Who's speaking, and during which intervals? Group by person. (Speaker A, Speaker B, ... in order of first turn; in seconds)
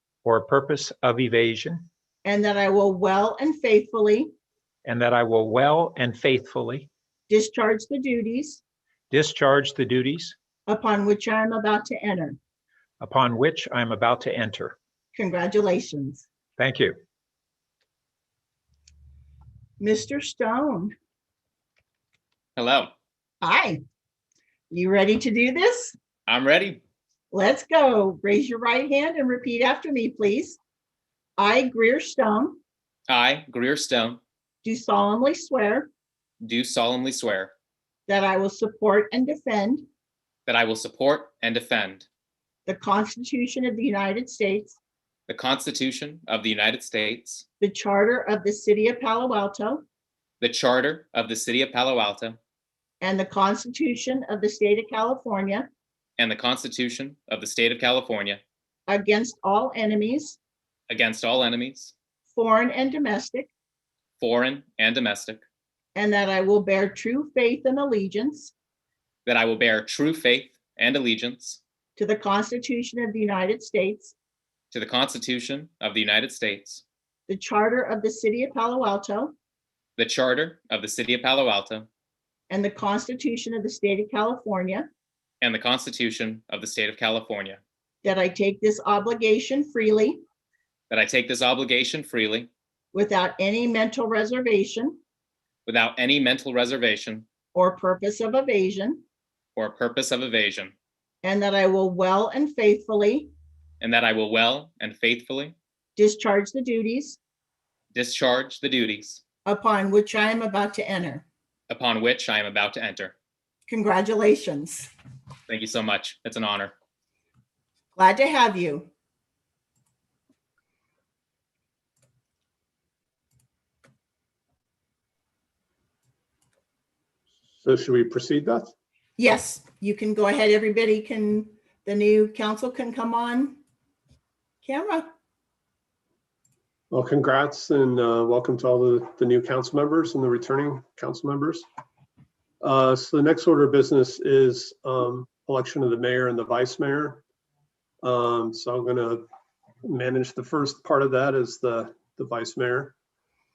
Speaker A: 0.2-1.9, 4.8-6.9, 9.1-10.3, 13.0-14.8, 16.6-17.0
Speaker B: 2.2-4.3, 7.3-8.6, 10.7-12.4, 15.1-16.2, 19.8-20.9, 23.4-23.8, 24.7-25.9, 27.3-30.6, 31.4-32.6, 34.6-35.9, 38.1-39.9, 42.6-44.8, 47.6-49.8, 53.0-55.7, 58.9-60.4, 62.3-63.5, 65.9-68.5, 72.0-74.1, 77.3-79.3, 82.5-84.9, 88.0-90.2, 92.9-95.0, 97.5-99.0, 101.2-103.3, 106.0-107.2, 109.5-111.2, 113.7-114.9, 117.9-118.9, 129.2-133.6, 134.6-135.1
Speaker C: 22.6-22.9, 26.3-26.8, 33.1-34.2, 36.4-37.5, 40.5-42.0, 45.3-47.4, 50.4-52.4, 56.2-58.4, 60.9-61.9, 64.2-65.4, 69.2-71.6, 74.7-76.8, 80.0-81.9, 85.4-87.6, 90.9-92.5, 95.7-97.2, 99.5-100.7, 103.8-105.5, 107.9-109.2, 111.7-113.1, 115.5-116.7
Speaker D: 127.6-128.7, 136.9-141.6, 142.6-147.2, 148.0-149.2, 149.8-152.9